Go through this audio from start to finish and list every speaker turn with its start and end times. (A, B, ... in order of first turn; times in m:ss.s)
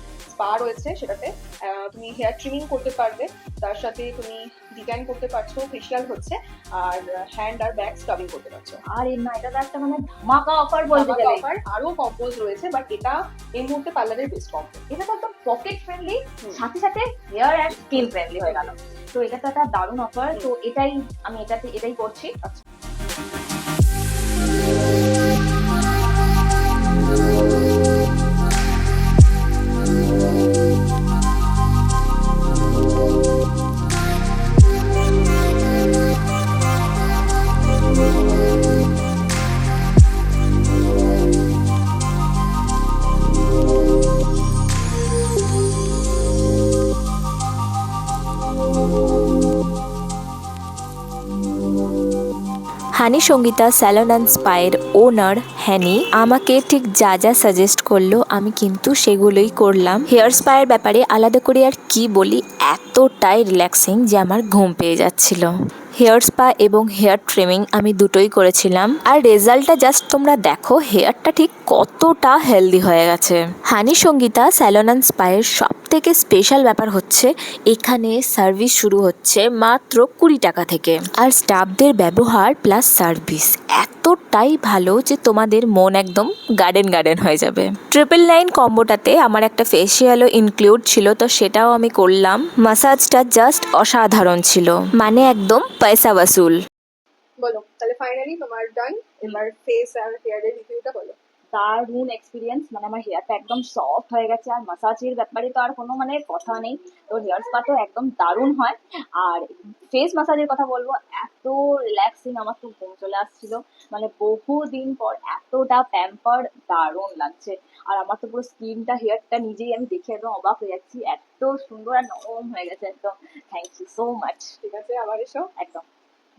0:00.3-0:08.8 A
0:08.9-0:11.5 B
0:10.9-0:14.8 A
0:14.9-0:22.3 B
0:17.8-0:18.7 A
0:53.0-1:36.6 C
1:37.4-1:41.2 A
1:41.5-2:04.5 B
2:04.6-2:05.5 A
2:05.6-2:05.9 B